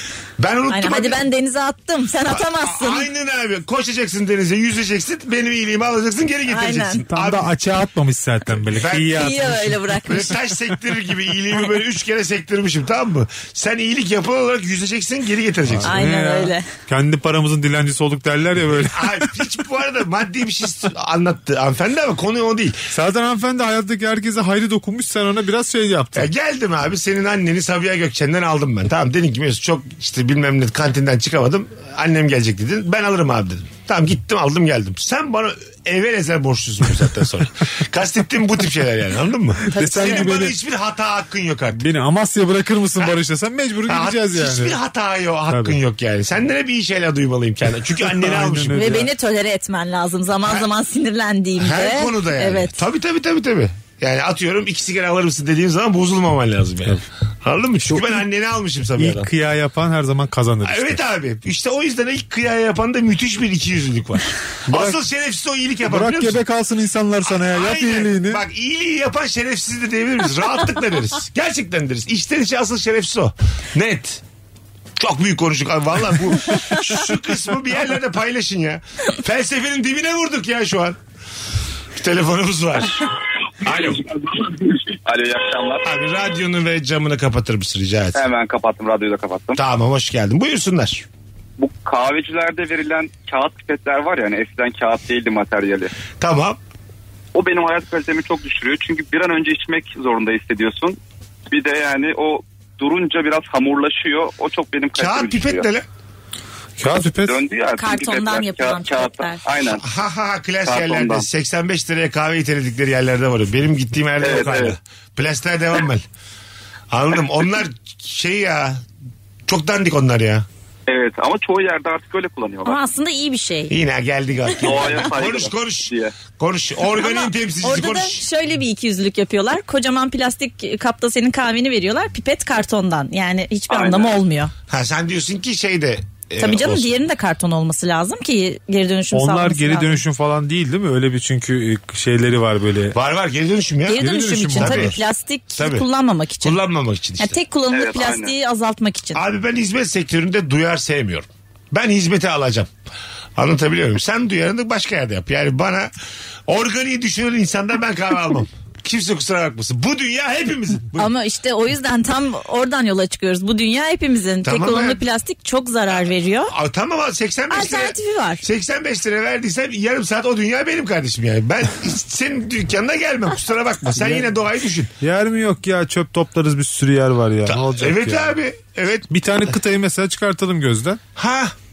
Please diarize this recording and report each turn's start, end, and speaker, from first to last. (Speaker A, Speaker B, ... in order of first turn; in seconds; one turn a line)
Speaker A: 0.4-1.2
Speaker B: 0.7-3.1
Speaker A: 2.3-7.5
Speaker B: 6.5-7.0
Speaker C: 7.1-9.8
Speaker A: 8.7-15.9
Speaker B: 9.1-10.3
Speaker C: 15.8-19.2
Speaker B: 15.8-16.6
Speaker A: 18.8-22.8
Speaker C: 22.9-26.3
Speaker A: 26.1-41.8
Speaker C: 39.6-40.5
Speaker B: 39.7-40.3
Speaker C: 41.7-44.8
Speaker A: 43.9-48.9
Speaker C: 45.5-45.8
Speaker C: 48.1-49.1
Speaker B: 48.7-52.8
Speaker A: 51.6-59.3
Speaker C: 59.0-61.0
Speaker A: 60.6-66.4
Speaker C: 64.7-65.0
Speaker C: 65.8-68.4
Speaker A: 67.2-74.2
Speaker A: 75.0-81.0
Speaker A: 82.0-83.1
Speaker A: 83.6-84.0
Speaker D: 85.0-85.8
Speaker A: 85.8-88.2
Speaker D: 88.1-89.6
Speaker A: 89.5-91.0
Speaker D: 91.6-95.9
Speaker A: 96.2-96.6
Speaker D: 97.3-101.0
Speaker D: 101.5-105.6
Speaker A: 104.9-105.8
Speaker C: 106.8-107.4
Speaker D: 107.2-109.8
Speaker B: 107.8-109.4
Speaker A: 109.8-116.0
Speaker D: 110.7-111.2
Speaker D: 114.2-114.7
Speaker A: 116.9-118.8
Speaker A: 119.5-120.5
Speaker D: 120.9-122.8
Speaker B: 122.7-123.7
Speaker A: 123.7-128.2
Speaker D: 124.6-126.1
Speaker B: 124.7-125.0
Speaker B: 126.9-134.5
Speaker D: 133.7-134.1
Speaker A: 134.7-136.9
Speaker B: 136.4-140.0
Speaker C: 139.1-142.9
Speaker A: 142.9-145.0
Speaker B: 143.9-146.6
Speaker C: 143.9-145.0
Speaker A: 145.6-145.8
Speaker A: 146.4-147.4
Speaker B: 147.2-149.2
Speaker D: 147.7-148.3
Speaker A: 149.1-152.7
Speaker A: 153.3-155.9
Speaker A: 156.5-161.1
Speaker B: 160.9-166.5
Speaker A: 164.4-165.0
Speaker A: 165.9-174.9
Speaker B: 167.5-168.4
Speaker C: 175.0-178.3
Speaker A: 177.4-179.1
Speaker C: 179.1-181.0
Speaker A: 181.2-181.5